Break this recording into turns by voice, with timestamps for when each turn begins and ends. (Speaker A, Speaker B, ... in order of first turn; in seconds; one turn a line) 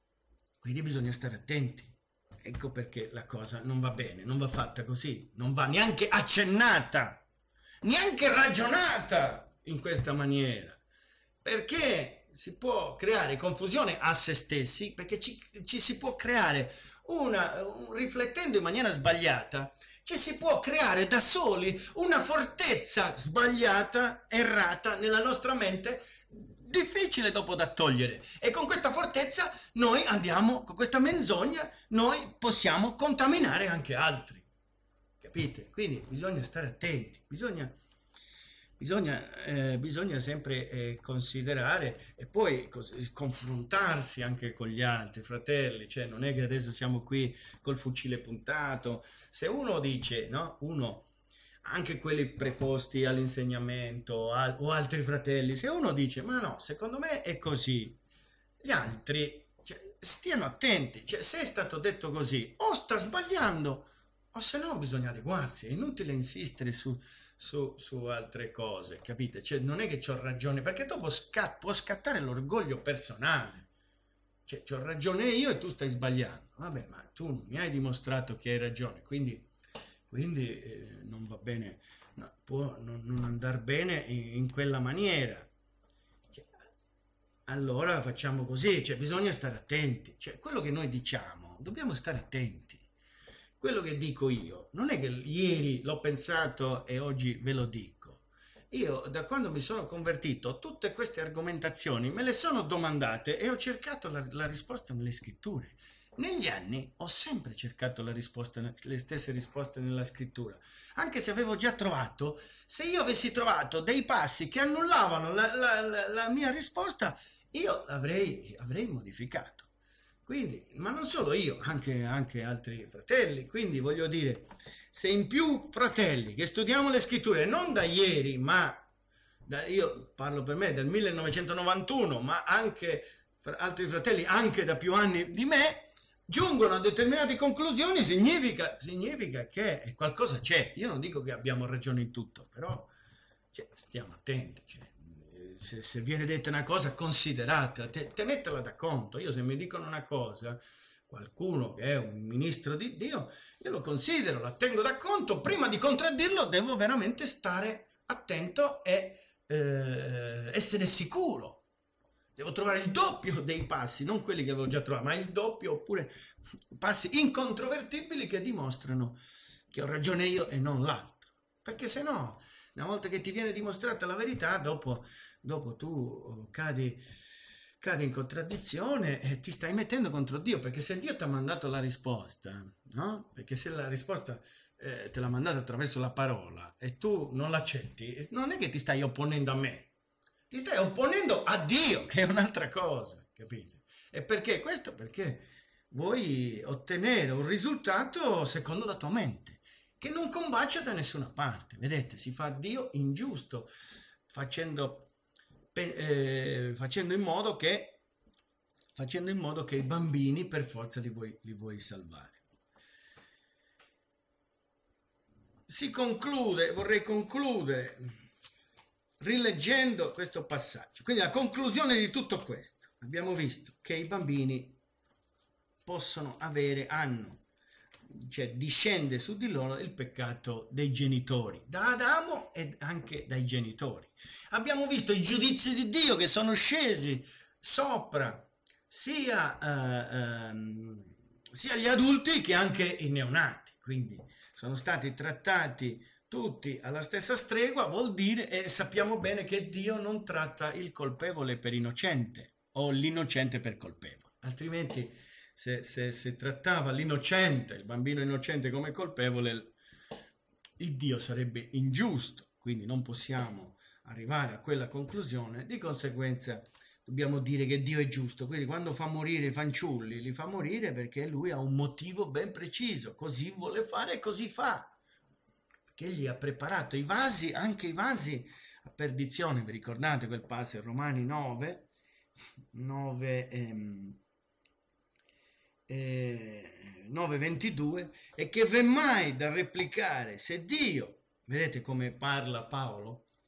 Speaker A: 0.6-7.2
Speaker A: 7.8-10.8
Speaker A: 11.4-34.5
Speaker A: 35.2-37.7
Speaker A: 38.8-51.1
Speaker A: 51.6-58.0
Speaker A: 58.6-73.7
Speaker A: 74.5-79.5
Speaker A: 80.1-85.5
Speaker A: 87.5-92.8
Speaker A: 93.6-119.7
Speaker A: 120.2-128.8
Speaker A: 129.5-142.9
Speaker A: 143.5-161.6
Speaker A: 162.3-166.1
Speaker A: 166.7-169.2
Speaker A: 169.7-177.0
Speaker A: 177.8-189.9
Speaker A: 190.5-203.7
Speaker A: 204.3-205.1
Speaker A: 205.7-208.0
Speaker A: 208.9-212.4
Speaker A: 215.7-218.1
Speaker A: 219.2-224.8
Speaker A: 225.8-227.4
Speaker A: 228.1-259.7
Speaker A: 260.8-274.9
Speaker A: 275.9-281.9
Speaker A: 282.7-284.2
Speaker A: 285.9-293.3